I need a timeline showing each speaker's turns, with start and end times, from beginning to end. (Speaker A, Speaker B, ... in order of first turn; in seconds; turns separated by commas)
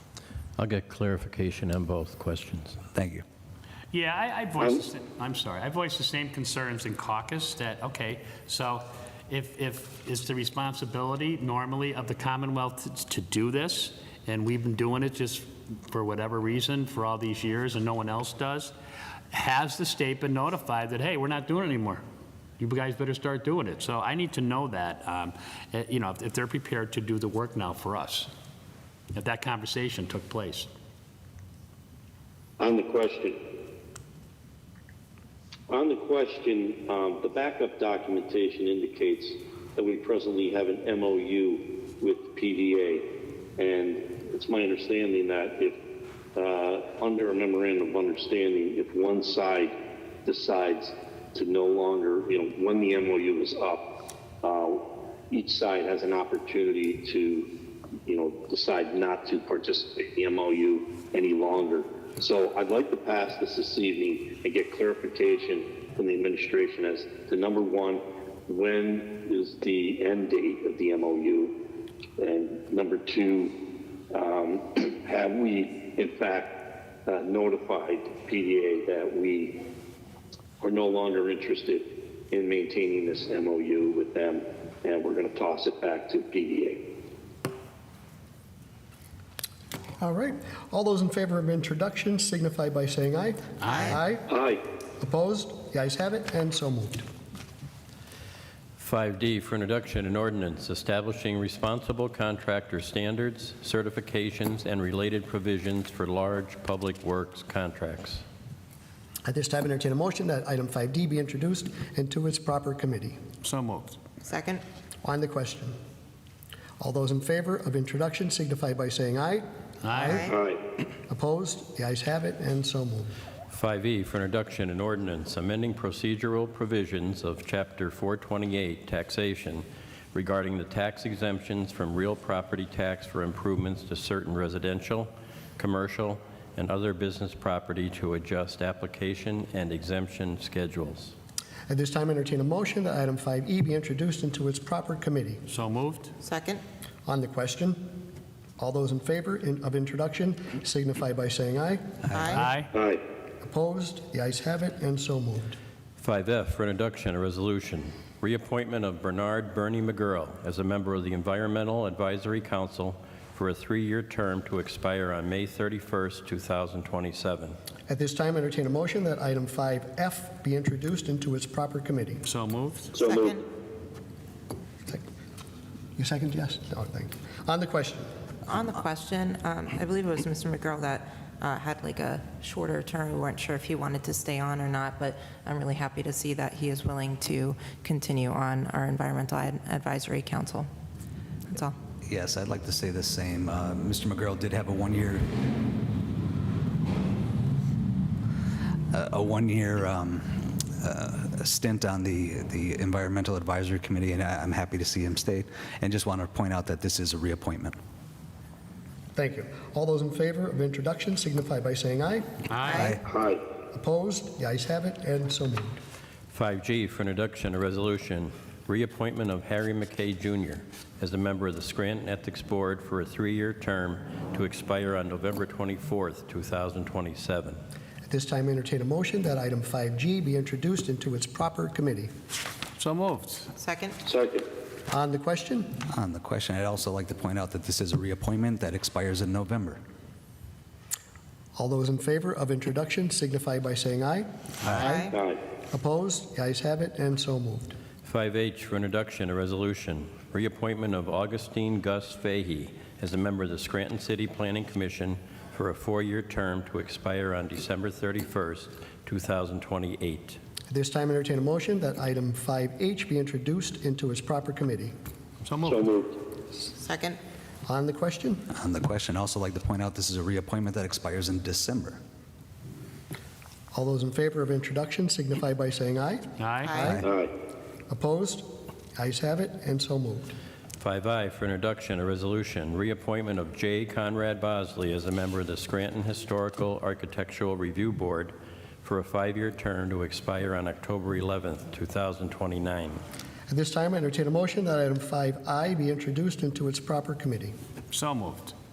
Speaker A: 0.6-2.8, Speaker B: 2.9-3.2, Speaker C: 3.9-18.7, Speaker C: 19.3-22.0, Speaker C: 22.6-28.3, Speaker C: 29.1-30.7, Speaker D: 32.6-33.4, Speaker D: 35.7-45.8, Speaker D: 46.3-49.7, Speaker D: 50.2-57.5, Speaker D: 58.0-71.6, Speaker D: 72.2-73.6, Speaker D: 74.1-79.6, Speaker D: 80.6-86.8, Speaker E: 90.0-94.3, Speaker C: 93.6-93.9, Speaker F: 93.7-94.0, Speaker D: 94.3-94.6, Speaker E: 95.0-97.0, Speaker A: 98.8-108.2, Speaker E: 109.2-113.2, Speaker C: 113.4-114.0, Speaker F: 114.2-114.6, Speaker E: 115.0-115.7, Speaker E: 116.8-120.3, Speaker C: 119.8-120.2, Speaker F: 120.0-120.4, Speaker D: 120.3-120.6, Speaker E: 121.1-123.1, Speaker A: 123.5-141.1, Speaker E: 141.7-145.4, Speaker C: 145.5-146.1, Speaker F: 146.2-146.6, Speaker E: 147.1-147.9, Speaker E: 148.6-152.3, Speaker F: 152.1-152.5, Speaker C: 152.3-152.7, Speaker D: 152.7-153.0, Speaker E: 153.4-155.6, Speaker A: 156.0-167.6, Speaker E: 167.9-172.2, Speaker C: 172.2-173.0, Speaker D: 172.9-173.3, Speaker F: 173.0-173.4, Speaker E: 175.9-178.1, Speaker F: 178.5-190.7, Speaker F: 191.5-191.8, Speaker B: 192.1-195.4, Speaker B: 198.9-207.8, Speaker E: 209.2-212.2, Speaker C: 212.5-212.8, Speaker F: 212.6-213.0, Speaker D: 213.1-213.4, Speaker E: 213.7-215.8, Speaker A: 216.3-227.6, Speaker E: 228.1-232.1, Speaker C: 232.8-233.5, Speaker F: 233.6-234.0, Speaker D: 234.0-234.4, Speaker E: 234.9-235.8, Speaker B: 235.9-239.8, Speaker E: 241.6-245.2, Speaker F: 244.7-245.1, Speaker D: 245.1-245.4, Speaker E: 245.7-247.7, Speaker A: 248.0-260.4, Speaker E: 260.7-264.9, Speaker C: 265.4-265.9, Speaker D: 265.6-266.2, Speaker F: 266.6-267.2, Speaker E: 267.6-268.5, Speaker B: 268.6-272.0, Speaker E: 273.7-276.3, Speaker C: 276.4-276.7, Speaker F: 276.6-277.0, Speaker D: 277.1-277.3, Speaker E: 277.9-280.3, Speaker A: 280.8-293.0, Speaker E: 293.5-297.5, Speaker C: 297.9-298.5